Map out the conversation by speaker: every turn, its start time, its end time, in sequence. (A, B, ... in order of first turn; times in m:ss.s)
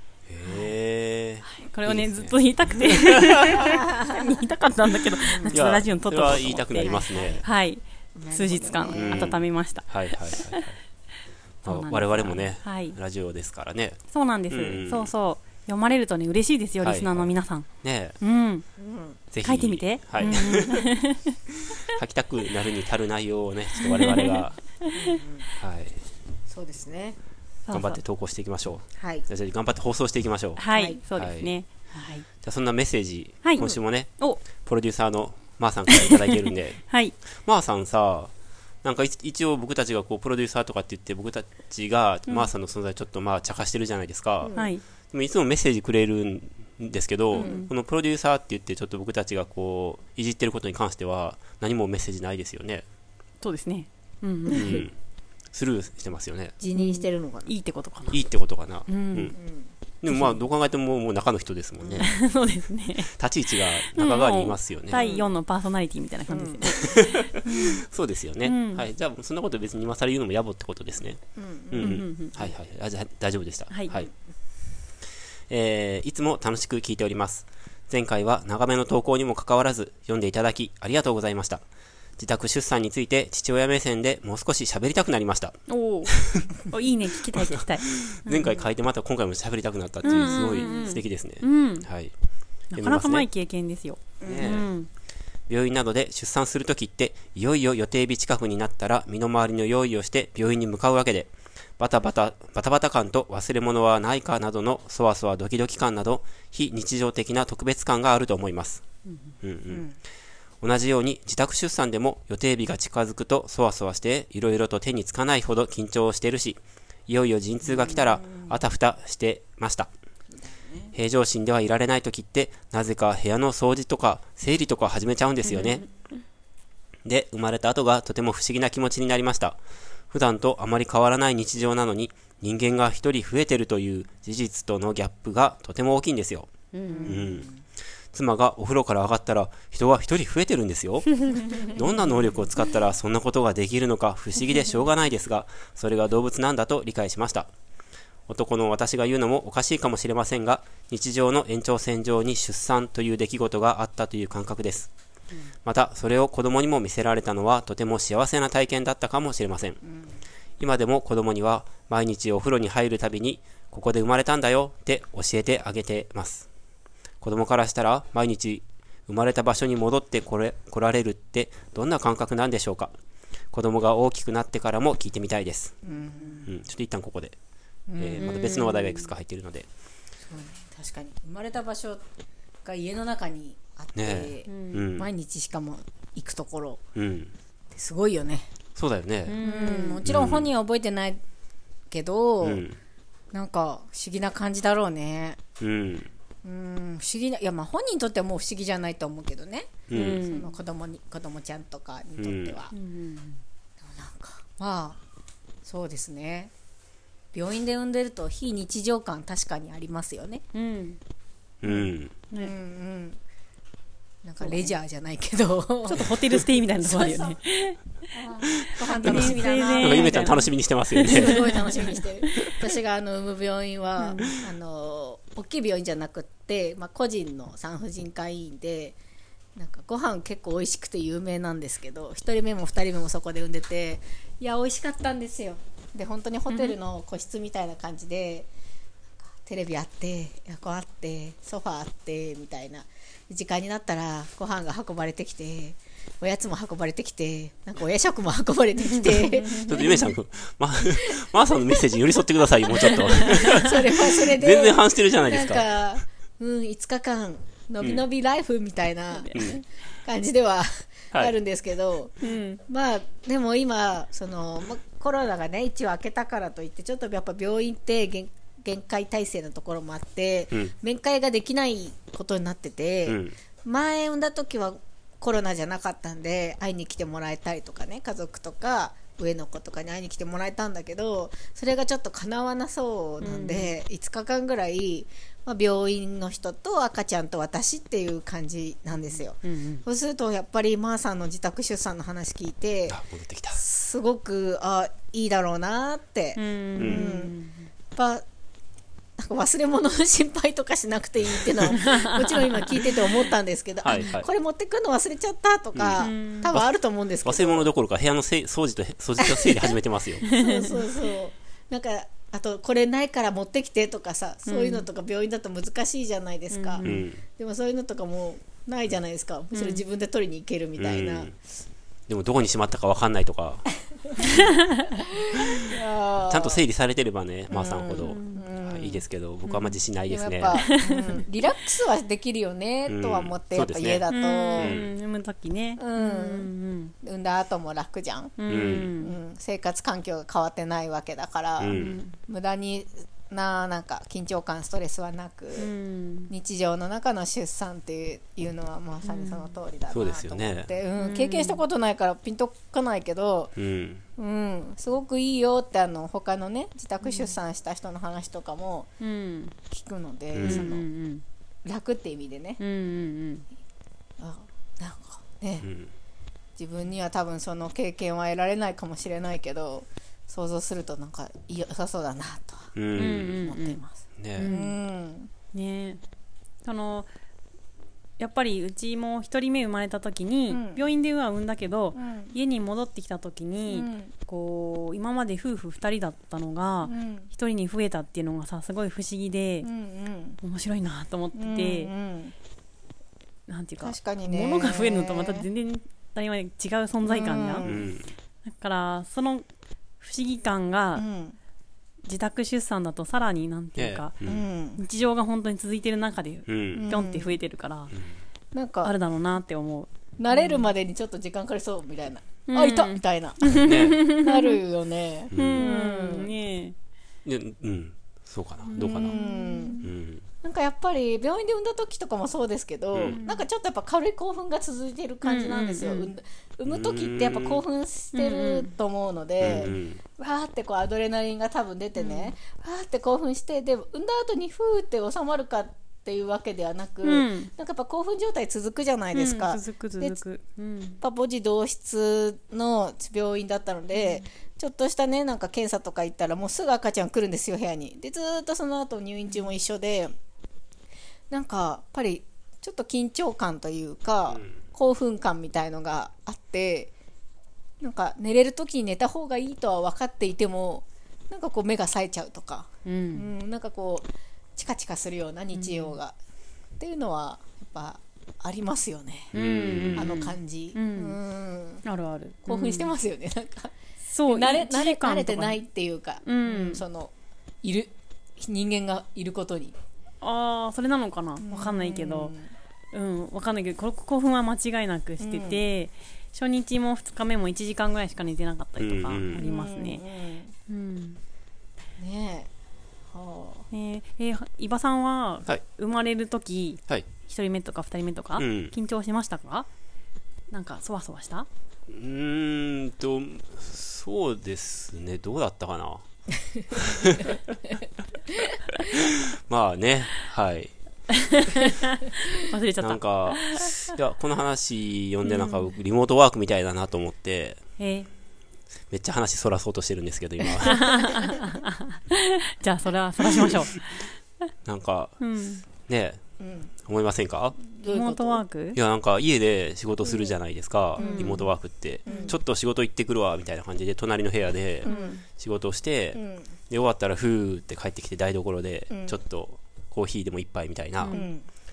0:00.3-0:03.8 A
0:01.4-0:10.6 B
0:03.7-0:04.4 C
0:05.3-0:05.6 C
0:05.5-0:07.4 A
0:06.8-0:07.5 C
0:08.2-0:09.3 C
0:08.9-0:10.8 A
0:11.6-0:15.1 A
0:11.6-0:13.0 B
0:14.1-0:17.7 B
0:16.8-0:17.3 A
0:17.8-0:18.2 A
0:18.2-0:18.7 B
0:18.8-0:19.2 C
0:19.3-0:20.9 A
0:19.4-0:21.4 B
0:21.8-0:24.6 A
0:23.8-0:25.2 B
0:24.9-0:25.5 C
0:25.6-0:26.0 A
0:26.5-0:27.2 C
0:27.7-0:28.0 B
0:27.7-0:31.5 A
0:29.0-0:29.3 C
0:30.6-0:32.2 B
0:30.7-0:31.0 C
0:32.4-0:36.9 A
0:35.9-0:36.2 B
0:36.9-0:37.1 B
0:37.4-0:38.3 A
0:38.8-0:52.8 A
0:44.4-0:44.7 C
0:44.5-0:44.8 B
0:47.3-0:47.7 B
0:53.4-0:54.8 B
0:54.5-0:54.9 A
0:55.5-0:56.6 A
0:56.6-0:57.5 C
0:56.8-0:58.2 B
0:58.1-0:59.4 A
0:58.9-0:59.4 B
0:59.4-0:59.7 C
1:00.0-1:02.1 A
1:00.1-1:00.4 B
1:01.8-1:02.1 C
1:02.0-1:03.1 B
1:03.2-1:05.0 A
1:03.8-1:07.8 B
1:04.9-1:05.3 C
1:06.3-1:06.7 C
1:06.8-1:11.2 A
1:08.4-1:08.8 B
1:11.4-1:12.0 C
1:11.7-1:14.1 A
1:11.8-1:12.6 B
1:15.5-1:21.6 A
1:22.2-1:25.6 A
1:25.7-1:28.6 B
1:26.1-1:26.5 A
1:27.4-1:32.1 A
1:30.0-1:31.9 B
1:30.1-1:30.9 C
1:32.7-1:34.9 B
1:32.8-1:33.3 A
1:34.2-1:34.5 C
1:34.2-1:34.7 A
1:35.5-1:48.8 A
1:49.4-1:49.9 A
1:50.6-1:59.9 A
1:57.6-1:58.6 C
2:00.3-2:00.9 C
2:00.9-2:05.8 A
2:05.5-2:05.8 B
2:07.0-2:09.6 A
2:10.1-2:16.5 A
2:16.7-2:17.2 B
2:16.9-2:17.6 C
2:17.0-2:17.5 A
2:18.1-2:27.5 A
2:21.3-2:21.6 B
2:28.3-2:34.9 A
2:35.6-2:39.8 A
2:39.8-2:40.2 C
2:40.6-2:46.5 A
2:47.2-2:52.9 A
2:53.5-2:55.8 A
2:55.8-2:56.5 C
2:56.4-2:57.4 A
2:57.9-2:58.3 C
2:58.0-2:59.7 A
2:58.2-2:59.1 B
3:00.2-3:02.0 C
3:02.6-3:06.8 C
3:04.0-3:05.1 A
3:04.5-3:04.8 B
3:07.0-3:07.3 A
3:07.7-3:08.5 C
3:08.8-3:09.4 A
3:09.3-3:10.0 B
3:09.4-3:11.2 C
3:10.0-3:10.5 A
3:11.9-3:12.6 C
3:12.4-3:12.8 A
3:13.3-3:15.4 C
3:15.6-3:16.1 A
3:16.4-3:22.7 C
3:19.9-3:20.2 A
3:19.9-3:20.5 B
3:22.2-3:22.6 A
3:22.7-3:23.4 B
3:23.8-3:25.0 C
3:25.6-3:26.5 C
3:27.3-3:30.4 C
3:30.5-3:31.0 B
3:31.6-3:32.1 A
3:31.7-3:33.2 C
3:31.7-3:32.5 B
3:34.2-3:36.2 C
3:34.4-3:34.7 B
3:35.8-3:37.8 B
3:36.8-3:37.4 C
3:38.1-3:40.4 C
3:38.5-3:41.6 A
3:38.9-3:42.5 B
3:41.0-3:49.0 C
3:44.0-3:44.4 B
3:49.6-3:58.5 C
3:59.2-4:10.1 C
4:08.9-4:10.1 B
4:09.6-4:15.7 A
4:11.0-4:11.9 C
4:12.7-4:22.2 C
4:13.0-4:13.7 B
4:19.1-4:19.6 B
4:22.2-4:22.6 B
4:22.7-4:53.0 C
4:33.1-4:33.3 A
4:43.2-4:43.7 B
4:49.4-4:49.8 B
4:52.9-4:53.6 A
4:53.5-4:57.4 C
4:56.4-4:57.7 B
4:56.8-4:57.0 A
4:58.0-4:58.2 C
4:59.2-5:07.7 C
5:01.7-5:02.8 B
5:03.8-5:04.3 A
5:05.8-5:06.7 A
5:06.0-5:06.5 B
5:07.2-5:10.2 A
5:09.2-5:21.3 C
5:10.2-5:10.9 B
5:14.5-5:14.9 B
5:16.5-5:17.1 B
5:16.8-5:17.2 A
5:19.5-5:19.8 B
5:20.8-5:21.3 A
5:22.1-5:23.7 A
5:24.2-5:24.9 B
5:25.0-5:26.6 C
5:26.3-5:30.6 A
5:27.5-5:29.0 C
5:28.0-5:28.4 B
5:29.5-5:29.8 B
5:30.1-5:34.8 C
5:30.6-5:31.2 B
5:32.9-5:34.1 A
5:34.1-5:36.9 B
5:34.6-5:34.9 A
5:35.8-5:36.5 C
5:37.0-5:38.4 C
5:38.4-5:39.2 B
5:38.5-5:38.9 A
5:39.0-5:45.7 C
5:41.6-5:42.0 A
5:41.7-5:42.1 B
5:45.6-5:46.3 B
5:46.3-5:53.5 C
5:49.0-5:49.5 B
5:49.9-5:50.7 A
5:51.0-5:51.6 B
5:53.6-5:54.0 A
5:54.2-5:58.9 C
5:57.0-5:57.3 B
5:59.0-5:59.6 B
5:59.7-6:00.9 C
6:00.4-6:00.7 A
6:00.4-6:01.2 B
6:01.6-6:02.6 C
6:02.6-6:03.5 B
6:04.2-6:05.7 C
6:05.6-6:05.9 A
6:06.6-6:15.3 C
6:12.8-6:13.4 A
6:13.0-6:13.8 B
6:14.2-6:14.5 A
6:14.4-6:14.8 B
6:15.5-6:16.0 B
6:16.6-6:17.1 B
6:18.2-6:29.7 B
6:20.5-6:20.8 C
6:22.0-6:22.3 C
6:23.7-6:24.1 C
6:26.8-6:27.3 C
6:29.6-6:30.4 C
6:30.4-6:31.9 B
6:31.4-6:32.3 C
6:33.5-6:37.7 B
6:33.8-6:35.5 C
6:37.0-6:37.9 C
6:37.6-6:38.1 A
6:38.6-6:39.4 B
6:40.0-6:41.0 B
6:41.0-6:41.4 C
6:42.1-6:44.1 B
6:43.8-6:44.4 A
6:44.2-6:44.8 C
6:44.8-6:47.9 B
6:46.5-6:46.9 A
6:46.7-6:47.4 C
6:48.5-6:48.9 C
6:48.8-6:50.7 B
6:50.2-6:56.3 C
6:52.5-6:54.6 B
6:53.6-6:54.0 A
6:55.3-6:55.7 A
6:55.3-6:56.8 B
6:57.2-6:59.2 A
6:58.7-6:59.9 B
6:58.8-6:59.8 C
6:59.8-7:00.2 A
7:00.4-7:20.2 C
7:02.9-7:03.2 A
7:03.1-7:03.4 B
7:05.2-7:06.1 B
7:06.7-7:07.6 A
7:08.1-7:08.7 B
7:09.4-7:10.0 A
7:12.0-7:12.3 B
7:17.0-7:17.5 B
7:19.1-7:21.0 B
7:21.0-7:30.1 C
7:31.3-7:36.9 C
7:37.8-7:46.2 C
7:42.9-7:43.3 B
7:45.5-7:46.0 B
7:46.8-7:49.3 C
7:49.3-7:50.2 A
7:49.3-7:51.2 B
7:50.0-7:51.8 C
7:51.8-7:52.9 B
7:52.5-7:53.8 C
7:54.1-7:55.6 B
7:54.3-7:59.8 C
7:56.2-7:56.8 B
8:00.2-8:02.3 B
8:01.4-8:02.5 C
8:02.9-8:10.0 B
8:05.2-8:05.6 C
8:08.8-8:09.4 A
8:09.4-8:10.5 C
8:10.7-8:11.2 B
8:12.0-8:12.5 C
8:13.1-8:13.7 C
8:13.7-8:19.7 B
8:18.4-8:18.7 A
8:20.5-8:21.5 B
8:21.9-8:26.0 A
8:26.7-8:27.4 A
8:28.8-8:30.7 A
8:31.1-8:33.9 B
8:32.8-8:37.6 A
8:35.3-8:35.7 B
8:37.8-8:38.1 B
8:38.9-8:41.0 A
8:40.6-8:44.1 B
8:44.6-8:45.2 A
8:45.2-8:45.6 B
8:45.8-8:46.2 A
8:46.4-8:46.7 C
8:46.8-8:47.6 A
8:47.6-8:48.4 C
8:47.9-8:48.8 B
8:48.8-9:01.2 A
8:50.1-8:50.3 C
8:51.0-8:51.4 C
8:51.0-8:51.5 B
8:52.1-8:52.4 B
8:52.1-8:52.4 C
8:54.8-8:55.2 C
8:54.8-8:55.2 B
8:56.2-8:56.5 C
8:58.9-8:59.2 C
9:01.0-9:01.3 B
9:01.1-9:01.5 C